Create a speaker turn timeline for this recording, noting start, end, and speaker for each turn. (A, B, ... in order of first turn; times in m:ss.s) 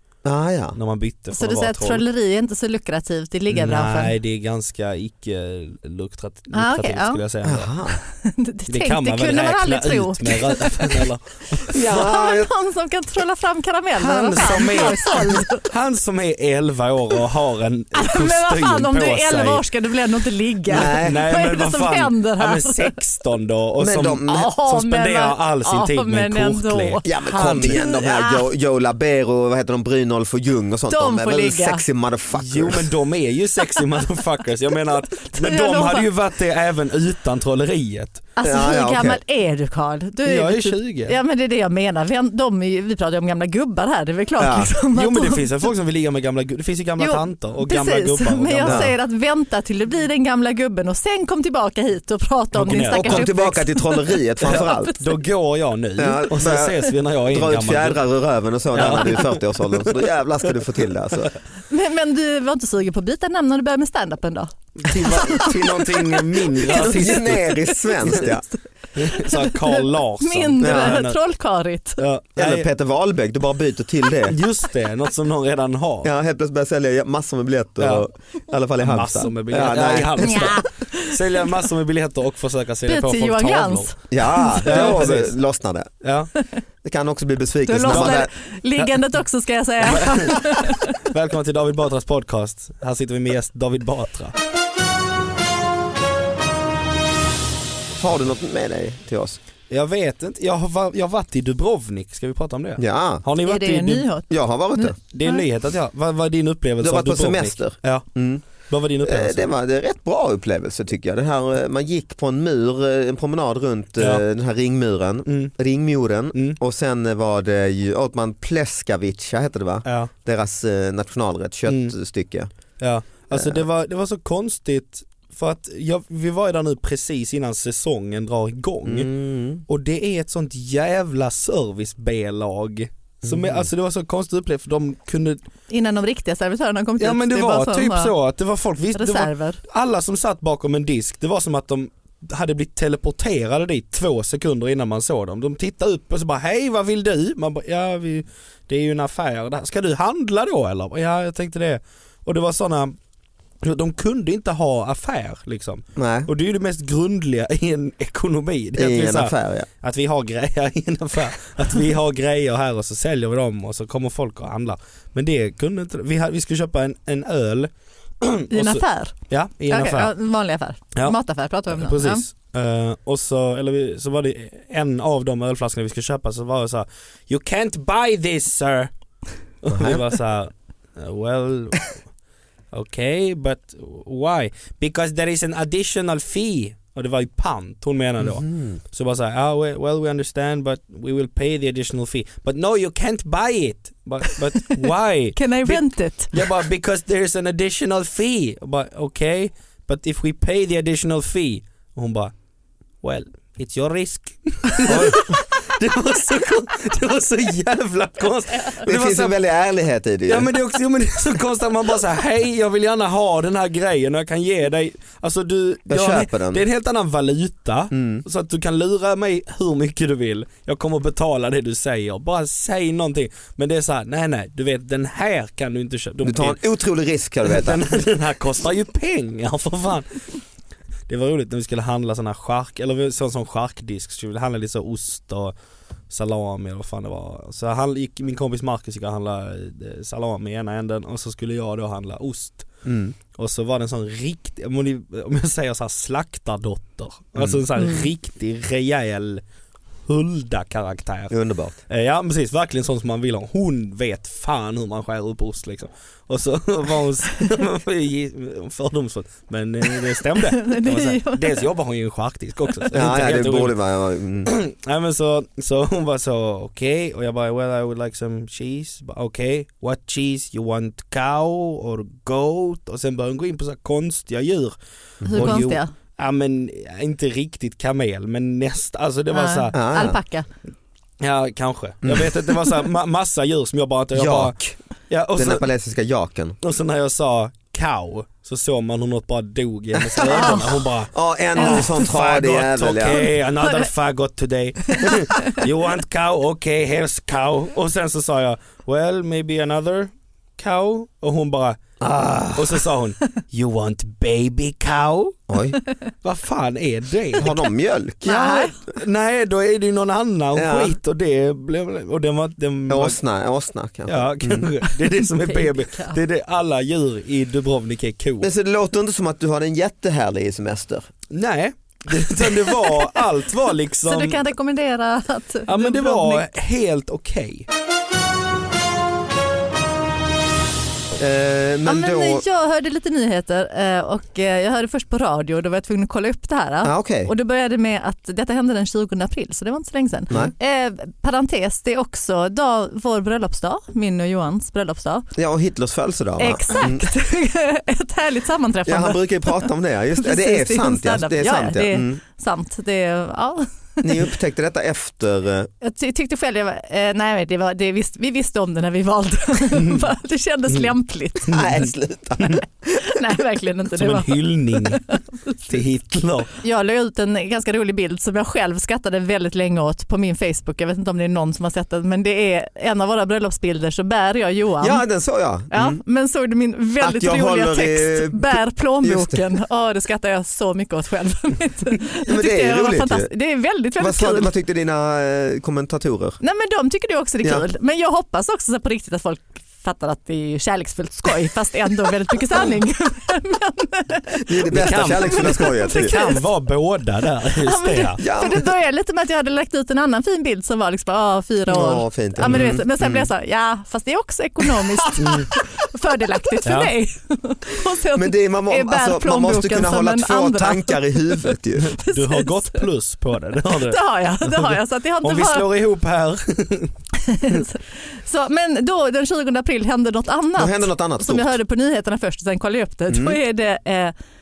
0:00.2-0:00.8 A
0:00.7-0:02.0 B
0:01.3-0:04.1 C
0:03.5-0:07.7 B
0:06.5-0:07.2 C
0:07.4-0:08.0 A
0:08.2-0:11.0 C
0:08.7-0:11.8 B
0:11.7-0:12.5 A
0:11.9-0:15.6 C
0:14.0-0:19.6 B
0:17.9-0:22.9 C
0:20.7-0:21.2 A
0:20.7-0:27.8 B
0:23.8-0:24.5 A
0:24.2-0:28.5 C
0:27.0-0:32.8 A
0:30.9-0:31.8 C
0:32.3-0:38.2 B
0:35.2-0:36.1 C
0:38.4-0:45.7 C
0:38.4-0:39.2 A
0:40.2-0:41.2 B
0:44.4-0:44.7 A
0:44.9-0:48.9 B
0:47.0-0:55.0 C
0:48.6-0:48.9 A
0:52.5-0:53.3 B
0:52.9-0:54.9 A
0:55.0-0:58.0 B
0:56.0-1:01.3 A
0:58.7-0:59.8 B
1:01.7-1:05.9 C
1:04.8-1:07.4 B
1:04.9-1:05.6 A
1:06.4-1:12.0 C
1:06.7-1:08.4 A
1:09.0-1:11.2 B
1:10.6-1:11.0 A
1:12.0-1:12.7 B
1:12.4-1:14.4 A
1:14.2-1:16.1 B
1:16.0-1:20.5 A
1:17.8-1:18.0 B
1:18.8-1:23.9 B
1:20.2-1:21.4 C
1:22.9-1:25.0 C
1:24.1-1:25.9 A
1:24.6-1:25.3 B
1:26.0-1:26.3 B
1:26.8-1:28.3 A
1:27.6-1:30.9 C
1:27.9-1:28.1 B
1:29.8-1:34.3 B
1:38.0-1:39.4 A
1:39.7-1:44.0 B
1:42.8-1:43.2 A
1:43.4-1:45.4 C
1:44.3-1:45.0 A
1:45.1-1:48.1 B
1:46.8-1:48.5 A
1:48.6-1:49.5 B
1:49.0-2:02.5 A
1:54.0-1:54.2 B
1:55.3-1:55.5 B
2:01.7-2:01.9 B
2:02.8-2:09.1 B
2:03.3-2:03.6 A
2:08.8-2:09.6 A
2:09.7-2:15.4 B
2:13.2-2:13.7 A
2:15.7-2:18.1 C
2:17.0-2:33.0 B
2:18.9-2:19.6 C
2:33.6-2:47.7 B
2:36.0-2:36.3 A
2:38.8-2:39.7 A
2:48.2-2:50.1 B
2:48.5-2:49.2 C
2:49.7-2:52.2 C
2:51.7-2:58.9 B
2:59.6-3:02.0 B
2:59.7-3:00.0 A
3:02.7-3:22.3 B
3:08.2-3:08.8 A
3:15.4-3:16.3 C
3:23.0-3:29.3 B
3:24.8-3:25.3 A
3:28.8-3:30.5 A
3:30.3-3:46.6 B
3:35.9-3:36.6 A
3:37.9-3:38.2 A
3:46.2-3:48.0 A
3:47.4-3:50.2 B
3:51.1-3:55.5 B
3:56.1-4:02.7 B
4:02.8-4:03.2 A
4:03.3-4:09.4 B
4:07.4-4:07.6 A
4:10.1-4:11.4 B
4:11.3-4:11.8 A
4:11.9-4:23.7 B
4:20.5-4:21.6 C
4:22.9-4:24.5 A
4:24.4-4:34.7 B
4:35.2-4:35.6 A
4:35.3-4:35.9 C
4:35.3-4:39.7 B
4:39.3-4:40.5 C
4:39.7-4:40.2 A
4:41.2-4:44.5 B
4:42.0-4:42.7 A
4:44.1-4:44.8 A
4:45.1-4:45.6 B
4:45.3-4:46.6 A
4:46.6-5:05.6 B
4:50.0-4:53.2 A
4:51.6-4:51.8 C
4:53.2-4:53.9 C
5:02.0-5:02.8 A
5:05.5-5:05.8 A
5:06.2-5:07.5 B
5:07.4-5:08.9 A
5:08.2-5:08.7 C
5:09.0-5:13.2 B
5:10.5-5:11.0 A
5:12.9-5:14.7 A
5:14.1-5:18.5 B
5:15.2-5:16.2 C
5:18.4-5:21.1 A
5:21.3-5:24.4 B
5:24.0-5:26.4 C
5:25.7-5:27.7 B
5:31.2-5:32.4 A
5:31.8-5:45.3 C
5:36.8-5:37.3 A
5:45.3-5:47.1 A
5:46.4-5:54.0 C
5:48.8-5:52.2 A
5:54.0-5:55.7 A
5:55.8-6:01.6 C
6:01.5-6:02.6 A
6:01.5-6:01.9 B
6:03.0-6:05.2 C
6:04.0-6:05.0 B
6:05.7-6:06.5 B
6:06.6-6:15.0 C
6:14.8-6:16.0 A
6:15.7-6:24.5 C
6:17.0-6:19.4 A
6:22.2-6:23.3 A
6:24.0-6:26.4 A
6:26.4-6:36.4 C
6:34.4-6:36.1 A
6:34.7-6:38.2 B
6:37.6-6:51.4 C
6:38.2-6:38.7 A
6:41.7-6:43.3 A
6:45.2-6:45.5 B
6:46.6-6:46.9 B
6:48.1-6:51.9 A
6:51.8-6:56.9 B
6:52.0-6:52.8 C
6:53.8-6:55.6 C
6:57.2-7:04.1 C
7:00.6-7:01.6 A
7:03.1-7:03.4 A